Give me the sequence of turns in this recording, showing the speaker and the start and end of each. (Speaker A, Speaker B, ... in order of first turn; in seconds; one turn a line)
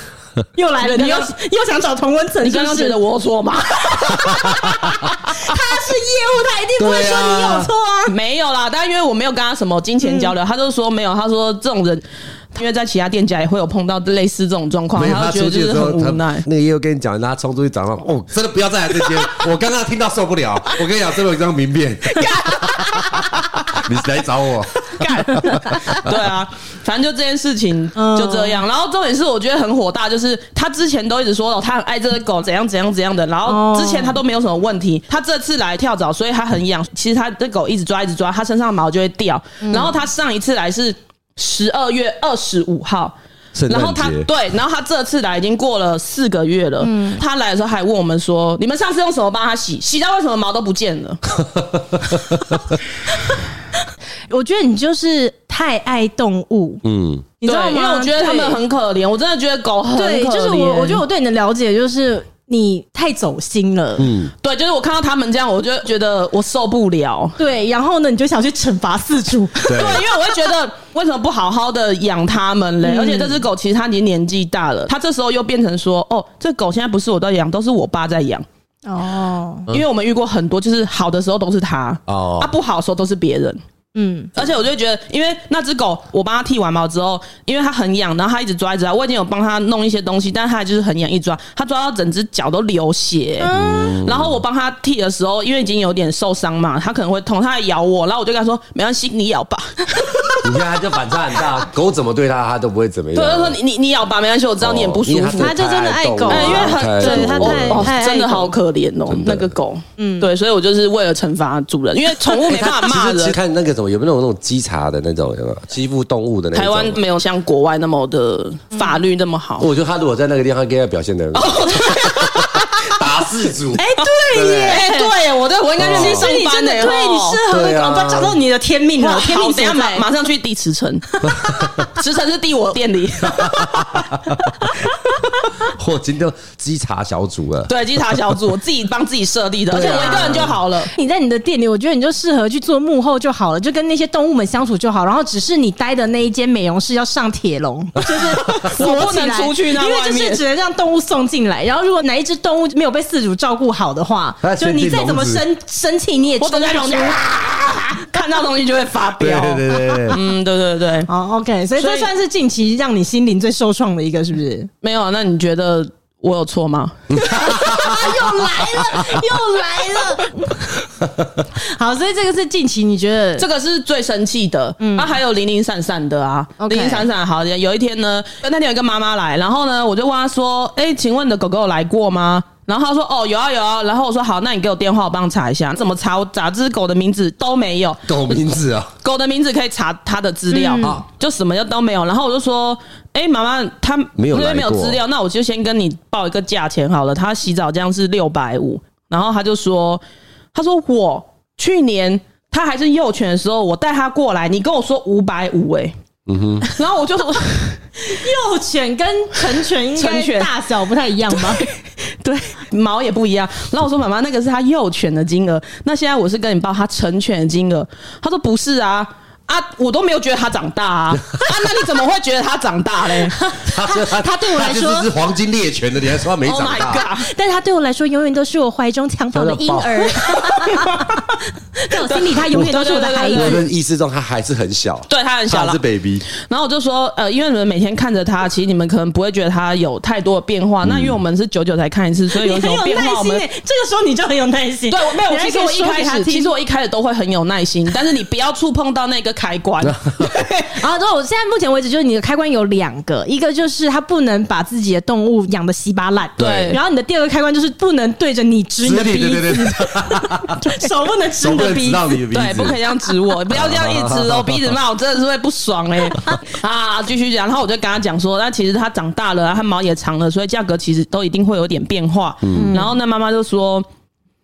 Speaker A: 0.5-3.0
Speaker B: 0.8-1.3
Speaker B: 2.4-4.5
Speaker A: 3.9-8.1
Speaker C: 6.8-7.7
Speaker B: 8.1-16.4
Speaker A: 10.0-10.3
Speaker C: 14.9-25.8
Speaker B: 22.1-23.7
Speaker B: 24.9-43.1
Speaker A: 25.4-25.9
Speaker A: 27.9-28.6
Speaker A: 33.5-34.2
Speaker A: 39.6-39.9
Speaker C: 43.5-44.3
Speaker B: 43.7-51.2
Speaker A: 46.8-47.2
Speaker C: 51.5-52.6
Speaker A: 54.3-56.8
Speaker C: 56.8-57.2
Speaker A: 57.4-58.6
Speaker B: 57.4-61.0
Speaker A: 59.9-64.1
Speaker C: 64.0-64.3
Speaker B: 64.4-67.4
Speaker A: 67.4-69.8
Speaker B: 69.7-78.4
Speaker C: 69.7-70.0
Speaker A: 72.8-73.4
Speaker A: 78.9-79.7
Speaker B: 79.7-83.6
Speaker C: 82.1-82.5
Speaker A: 83.9-84.3
Speaker B: 84.3-100.5
Speaker A: 93.4-94.0
Speaker C: 93.5-94.4
Speaker C: 100.4-103.6
Speaker B: 103.1-105.5
Speaker C: 104.6-107.9
Speaker A: 105.4-108.5
Speaker B: 106.3-113.3
Speaker C: 109.1-109.5
Speaker A: 110.0-110.3
Speaker C: 112.4-117.0
Speaker B: 116.5-119.7
Speaker C: 119.6-124.8
Speaker B: 121.3-122.9
Speaker A: 123.7-125.1
Speaker B: 124.7-127.4
Speaker C: 125.8-126.3
Speaker A: 125.8-130.1
Speaker C: 127.5-128.4
Speaker B: 129.0-131.3
Speaker C: 131.4-131.8
Speaker B: 131.8-134.1
Speaker C: 133.2-134.4
Speaker C: 135.6-137.7
Speaker B: 137.7-140.9
Speaker C: 139.7-140.6
Speaker A: 139.7-157.2
Speaker B: 148.5-150.4
Speaker C: 154.4-155.4
Speaker B: 156.4-161.1
Speaker C: 159.2-160.2
Speaker A: 161.1-164.7
Speaker B: 161.8-162.1
Speaker B: 164.8-167.1
Speaker C: 167.1-168.3
Speaker A: 167.2-170.7
Speaker A: 171.6-173.4
Speaker B: 173.4-188.3
Speaker A: 174.8-175.1
Speaker A: 176.6-177.1
Speaker C: 188.1-188.9
Speaker B: 189.0-200.0
Speaker A: 190.5-190.9
Speaker C: 194.2-195.0
Speaker B: 200.5-205.9
Speaker C: 206.3-206.7
Speaker B: 206.6-207.8
Speaker A: 208.0-211.7
Speaker B: 209.9-210.5
Speaker B: 211.3-223.4
Speaker A: 223.3-225.1
Speaker C: 223.6-227.0
Speaker B: 226.4-227.3
Speaker A: 227.1-233.6
Speaker C: 229.3-230.2
Speaker B: 230.7-231.0
Speaker B: 232.0-233.6
Speaker C: 233.3-236.2
Speaker B: 235.1-235.8
Speaker B: 236.3-243.4
Speaker C: 240.8-241.2
Speaker A: 242.3-246.5
Speaker B: 244.9-250.7
Speaker C: 249.8-250.3
Speaker A: 250.7-262.2
Speaker C: 256.4-256.8
Speaker B: 256.4-256.8
Speaker C: 258.8-260.6
Speaker C: 261.4-262.8
Speaker B: 262.3-273.9
Speaker C: 263.5-264.7
Speaker C: 272.4-272.7
Speaker A: 272.5-272.9